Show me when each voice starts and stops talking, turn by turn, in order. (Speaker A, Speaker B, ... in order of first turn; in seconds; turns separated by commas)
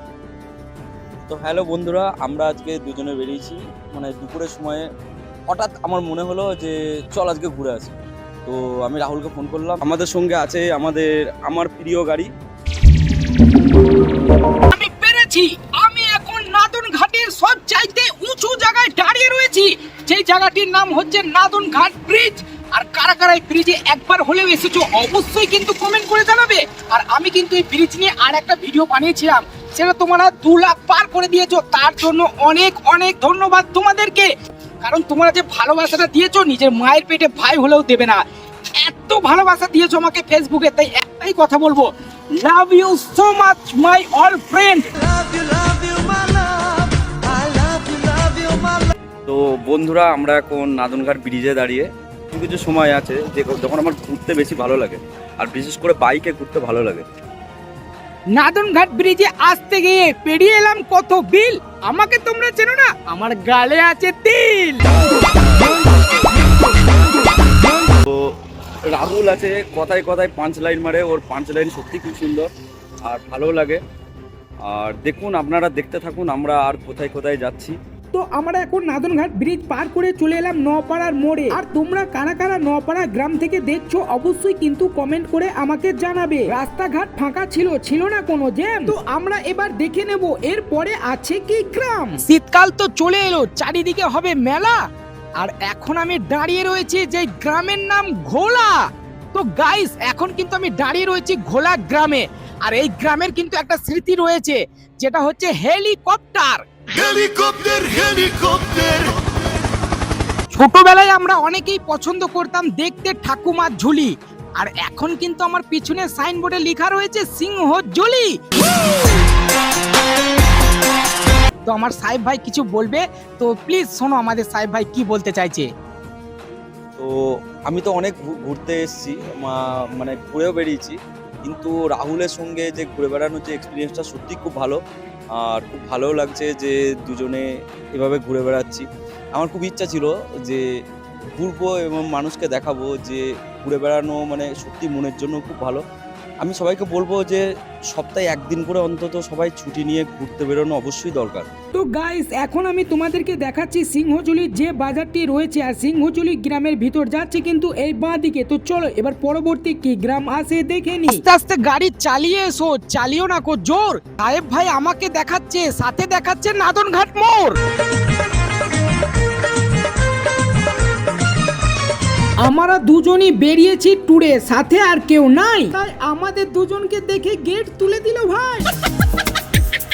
Speaker A: 1.3-4.8, Speaker A: 5.5-12.3, Speaker B: 14.7-44.9, Speaker A: 49.3-57.0, Speaker B: 58.3-64.8, Speaker A: 67.9-68.4, Speaker A: 68.9-72.5, Speaker A: 73.1-73.8, Speaker A: 74.7-77.8, Speaker B: 78.1-94.8, Speaker C: 81.8-85.9, Speaker C: 86.7-87.1, Speaker C: 89.0-91.2, Speaker B: 95.4-107.3, Speaker C: 107.9-108.5, Speaker B: 110.5-118.4, Speaker B: 121.7-125.7, Speaker A: 127.7-134.8, Speaker A: 135.3-140.6, Speaker A: 141.4-145.8, Speaker A: 146.4-151.5, Speaker B: 151.8-167.6, Speaker C: 159.4-159.8, Speaker B: 172.4-178.7, Speaker C: 175.9-178.7